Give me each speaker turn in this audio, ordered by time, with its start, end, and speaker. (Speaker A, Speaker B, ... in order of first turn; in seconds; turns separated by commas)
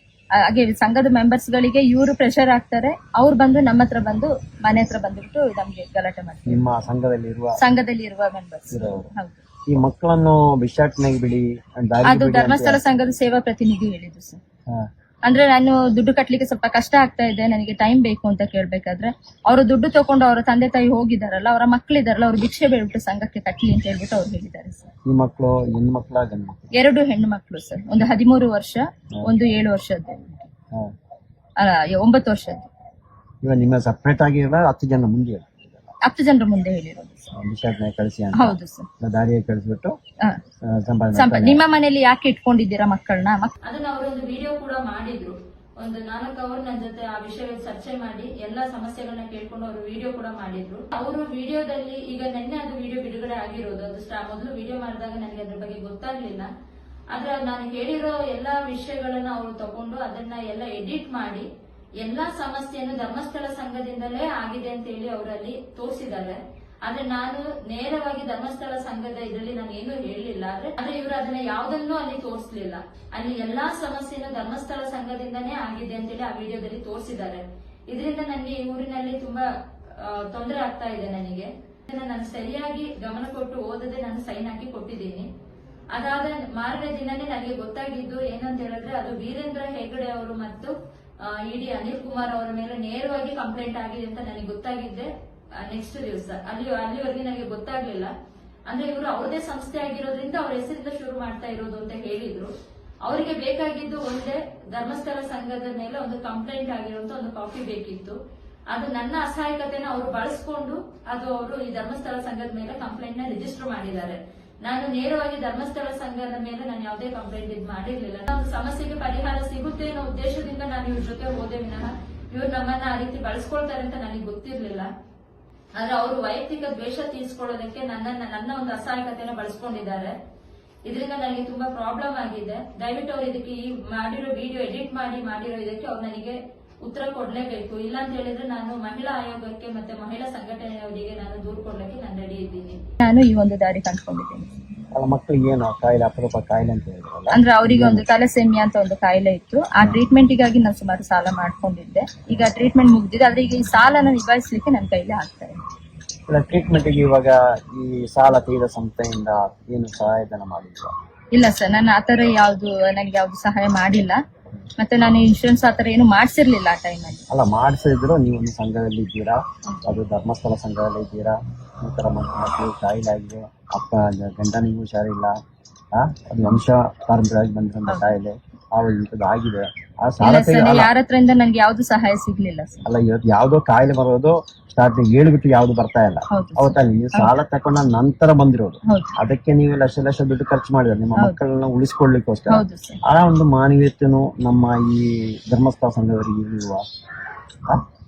Speaker A: 0.3-6.7, Speaker B: 6.5-7.6, Speaker A: 7.6-9.4, Speaker B: 8.7-9.1, Speaker B: 9.7-12.8, Speaker A: 12.0-14.4, Speaker A: 15.2-24.9, Speaker B: 25.0-26.7, Speaker A: 26.7-30.5, Speaker A: 31.6-32.7, Speaker B: 33.4-35.9, Speaker A: 36.0-37.3, Speaker B: 37.3-39.9, Speaker A: 38.3-38.9, Speaker B: 40.6-41.6, Speaker A: 41.1-43.5, Speaker C: 43.6-56.5, Speaker C: 57.1-61.5, Speaker C: 62.0-85.3, Speaker C: 85.9-95.1, Speaker C: 95.6-98.1, Speaker C: 98.7-102.5, Speaker C: 103.0-108.2, Speaker C: 108.7-124.9, Speaker C: 125.8-130.1, Speaker C: 130.8-142.8, Speaker A: 143.0-144.5, Speaker B: 144.9-148.0, Speaker A: 147.3-155.6, Speaker B: 156.3-160.9, Speaker A: 161.3-164.2, Speaker A: 164.8-167.2, Speaker B: 167.3-175.3, Speaker B: 175.9-180.9, Speaker A: 180.2-182.8, Speaker B: 182.8-196.8, Speaker A: 186.3-187.3, Speaker A: 188.9-189.1, Speaker A: 192.5-193.0